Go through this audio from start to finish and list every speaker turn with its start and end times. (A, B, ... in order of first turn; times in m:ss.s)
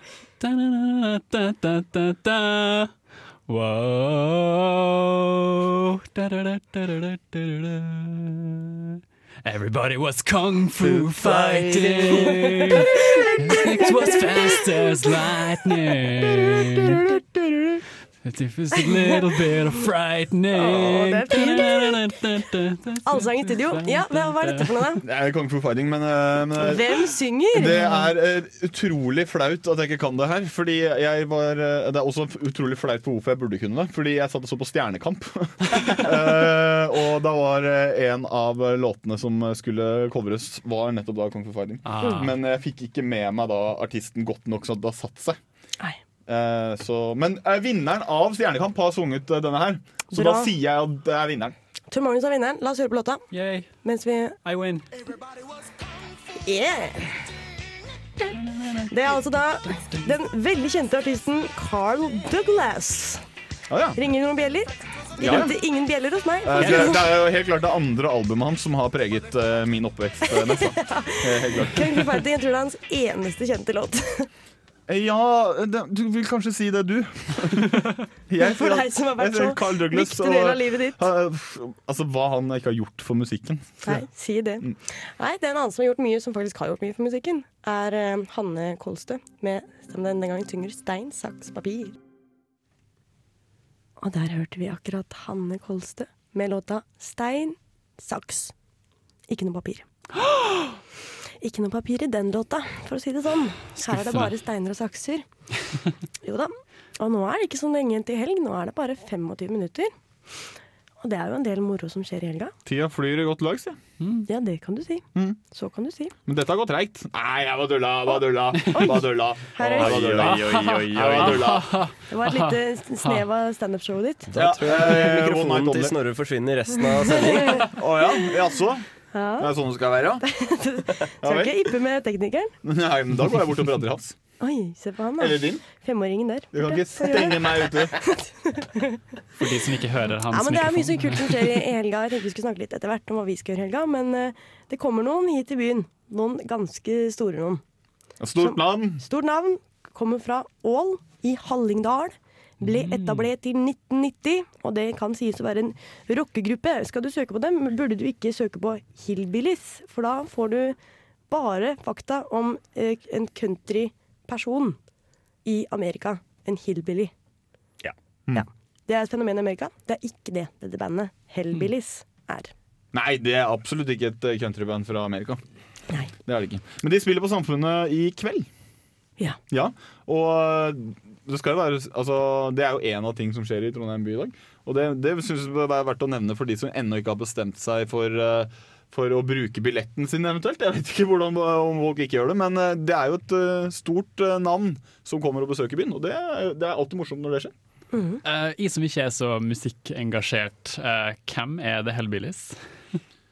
0:00.4-0:02.9 A
0:03.5-0:17.0 A
0:11.2-0:12.5 B
0:13.2-0:14.6 C
0:16.6-0:17.8 D
0:18.2-0:24.9 A
0:18.8-0:19.2 C
0:20.5-0:22.0 C
0:23.0-0:25.0 C
0:25.0-0:27.0 D
0:26.6-0:27.8 C
0:27.5-0:45.4 D
0:41.9-0:42.3 A
0:42.0-0:42.3 C
0:46.3-0:51.5 D
0:50.1-0:50.6 C
0:51.9-0:53.2 C
0:53.3-0:53.7 A
0:53.8-0:54.4 C
0:54.4-0:54.8 A
0:56.4-0:57.2 C
0:58.3-0:58.8 A
0:58.9-1:03.2 C
1:03.7-1:04.0 D
1:04.0-1:07.1 C
1:05.2-1:05.6 D
1:06.4-1:12.1 D
1:10.3-1:14.3 C
1:14.9-1:24.0 D
1:18.4-1:21.0 C
1:23.8-1:32.0 C
1:34.0-1:38.5 C
1:39.3-1:39.9 C
1:40.3-1:40.6 A
1:41.4-1:45.2 C
1:43.9-1:44.3 A
1:46.2-1:49.9 C
1:51.0-1:52.5 C
1:52.6-1:53.8 D
1:54.0-1:54.3 A
1:54.3-1:56.1 C
1:56.3-2:01.7 D
1:58.7-2:00.2 C
1:59.6-2:01.5 B
2:00.2-2:03.2 A
2:02.1-2:04.3 C
2:04.3-2:07.8 B
2:04.3-2:06.0 D
2:07.1-2:07.7 C
2:07.6-2:08.9 D
2:09.1-2:09.5 C
2:09.4-2:10.2 D
2:10.2-2:12.5 C
2:11.2-2:11.5 D
2:12.6-2:14.2 D
2:14.4-2:19.0 C
2:15.2-2:15.6 D
2:16.5-2:18.0 D
2:19.4-2:21.6 A
2:20.3-2:27.6 C
2:28.2-2:29.0 D
2:28.4-2:40.8 C
2:32.7-2:33.3 A
2:41.3-2:44.8 C
2:45.4-2:47.1 C
2:48.4-2:52.5 C
2:52.9-2:55.4 D
2:56.2-2:58.5 D
2:59.5-3:17.5 D
3:17.9-3:18.2 C
3:18.2-3:22.6 A